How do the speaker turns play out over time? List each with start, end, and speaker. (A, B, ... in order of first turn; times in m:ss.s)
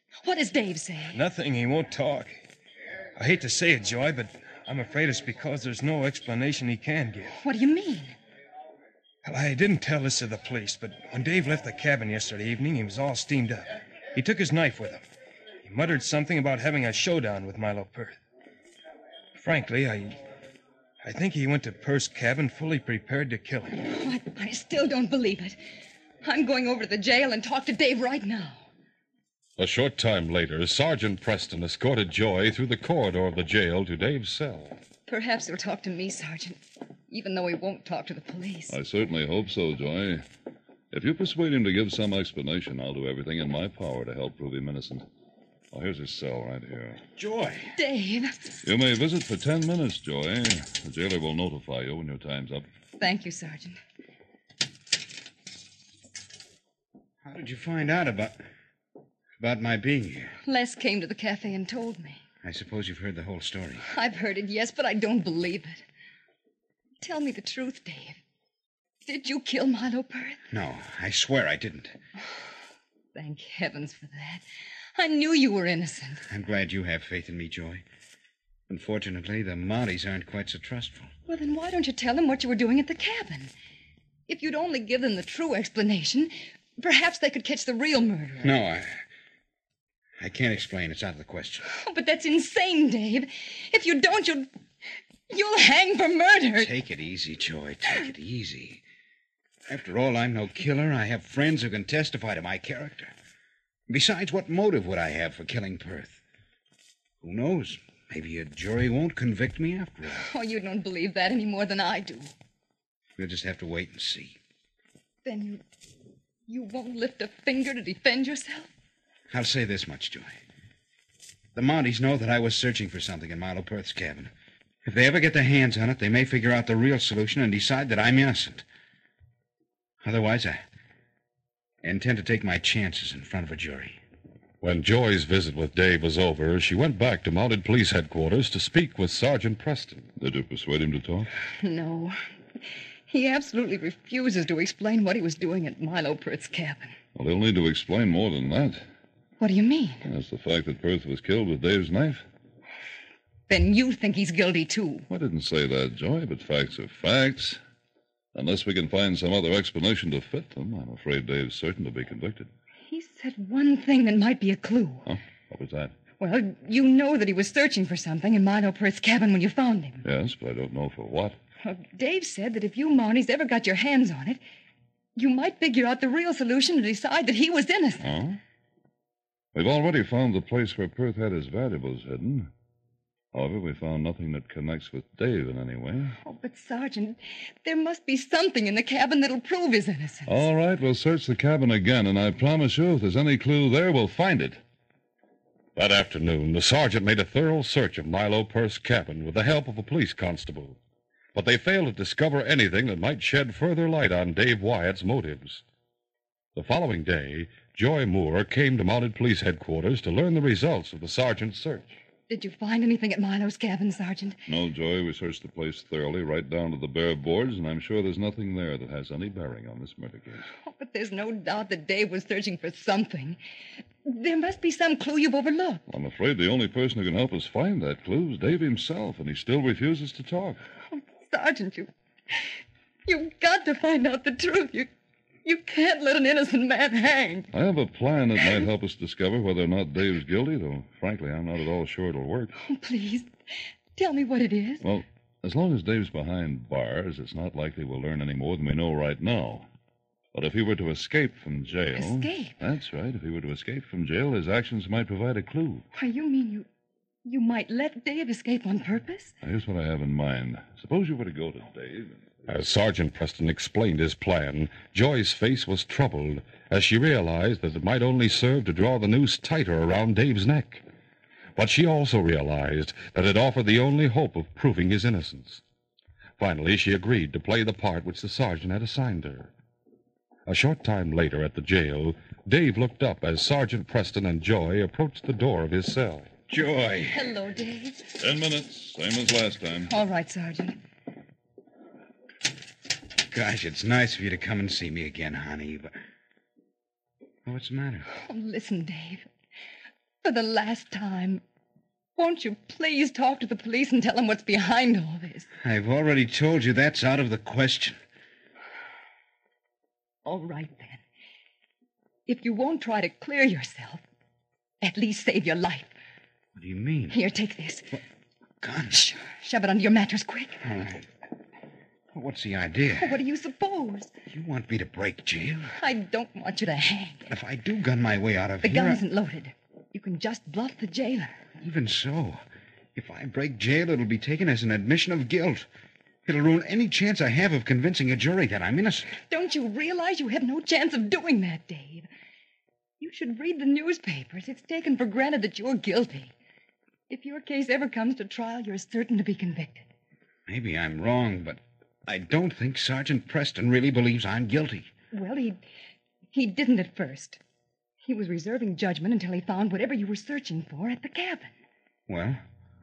0:00.2-0:01.2 A
0:01.1-0:02.4 B
0:03.2-0:07.3 B
0:07.4-0:08.1 A
0:09.2-0:15.0 B
0:15.6-0:18.2 B
0:19.4-0:20.2 B
0:21.0-0:23.8 B
0:23.8-0:25.6 A
0:26.2-0:28.6 A
0:29.6-0:34.8 C
0:35.1-0:36.6 A
0:37.1-0:38.7 A
0:38.7-0:40.2 D
0:40.9-0:45.0 D
0:45.7-0:47.0 D
0:47.2-0:47.7 E
0:47.8-0:48.3 A
0:48.6-0:52.6 D
0:53.0-0:53.8 A
0:57.2-0:58.4 E
0:59.4-1:00.3 E
1:00.4-1:02.2 A
1:02.4-1:03.8 E
1:03.9-1:05.8 A
1:07.0-1:08.2 A
1:09.0-1:10.4 A
1:10.5-1:11.9 E
1:13.1-1:14.4 A
1:15.0-1:16.2 A
1:16.3-1:17.8 E
1:18.7-1:21.1 E
1:21.3-1:23.5 A
1:24.3-1:28.5 A
1:28.4-1:28.9 E
1:30.2-1:31.7 E
1:31.7-1:34.5 A
1:35.3-1:36.7 A
1:36.6-1:38.8 E
1:39.7-1:43.1 E
1:43.9-1:46.2 E
1:47.2-1:50.2 E
1:50.1-1:52.3 A
1:53.2-1:54.4 E
1:55.2-1:55.6 A
1:56.5-1:58.7 A
1:59.3-2:00.3 E
2:01.5-2:04.3 E
2:04.8-2:08.6 E
2:10.0-2:10.6 E
2:11.8-2:14.0 E
2:14.6-2:20.1 C
2:20.2-2:21.3 D
2:21.6-2:22.2 A
2:23.1-2:26.9 A
2:27.1-2:28.8 D
2:29.4-2:30.0 A
2:30.0-2:32.2 D
2:33.5-2:35.0 A
2:35.1-2:37.6 D
2:38.3-2:42.5 D
2:42.9-2:45.0 A
2:45.0-2:45.9 D
2:46.2-2:50.0 A
2:50.0-2:51.4 D
2:51.6-2:54.4 A
2:55.2-2:58.1 A
2:58.0-2:58.4 D
2:59.5-3:02.5 D
3:03.3-3:06.2 D
3:06.2-3:10.4 A
3:10.3-3:14.6 D
3:15.8-3:20.8 C
3:21.3-3:25.6 C
3:26.5-3:32.0 C
3:32.3-3:34.4 A
3:34.5-3:40.4 D
3:40.6-3:43.4 A
3:44.0-3:45.8 A
3:45.9-3:50.6 D
3:50.9-3:51.9 A
3:53.0-3:54.9 A
3:55.4-3:57.5 A
3:57.5-4:02.5 D
4:02.6-4:03.3 A
4:04.0-4:04.8 A
4:04.8-4:09.6 D
4:10.3-4:15.8 D
4:11.9-4:12.5 A
4:15.9-4:16.6 A
4:17.2-4:19.3 A
4:19.4-4:22.2 D
4:22.5-4:30.8 C
4:31.6-4:35.6 C
4:36.4-4:39.5 C
4:40.5-4:46.3 C
4:46.5-4:47.2 E
4:47.1-4:48.0 A
4:48.2-4:49.9 D
4:49.9-4:50.8 A
4:53.3-4:55.9 E
4:57.4-4:58.1 E
4:58.2-4:59.3 A
5:00.2-5:01.4 A
5:02.2-5:05.5 A
5:05.6-5:08.0 E
5:10.2-5:11.0 A
5:12.3-5:14.0 A
5:14.8-5:15.9 A
5:16.5-5:17.2 E
5:17.1-5:18.0 A
5:18.6-5:19.0 E
5:18.9-5:20.6 A
5:20.6-5:21.1 E
5:22.1-5:23.1 E
5:23.0-5:24.1 A
5:24.3-5:25.7 E
5:25.8-5:27.3 A
5:27.3-5:29.0 E
5:28.6-5:31.4 A
5:31.6-5:32.4 E
5:32.9-5:35.6 E
5:36.2-5:39.1 E
5:39.3-5:42.1 A
5:43.0-5:46.3 A
5:47.1-5:49.8 A
5:50.5-5:54.9 E
5:55.1-5:55.6 A
5:56.3-5:57.4 A
5:58.0-6:01.5 A
6:02.1-6:02.4 E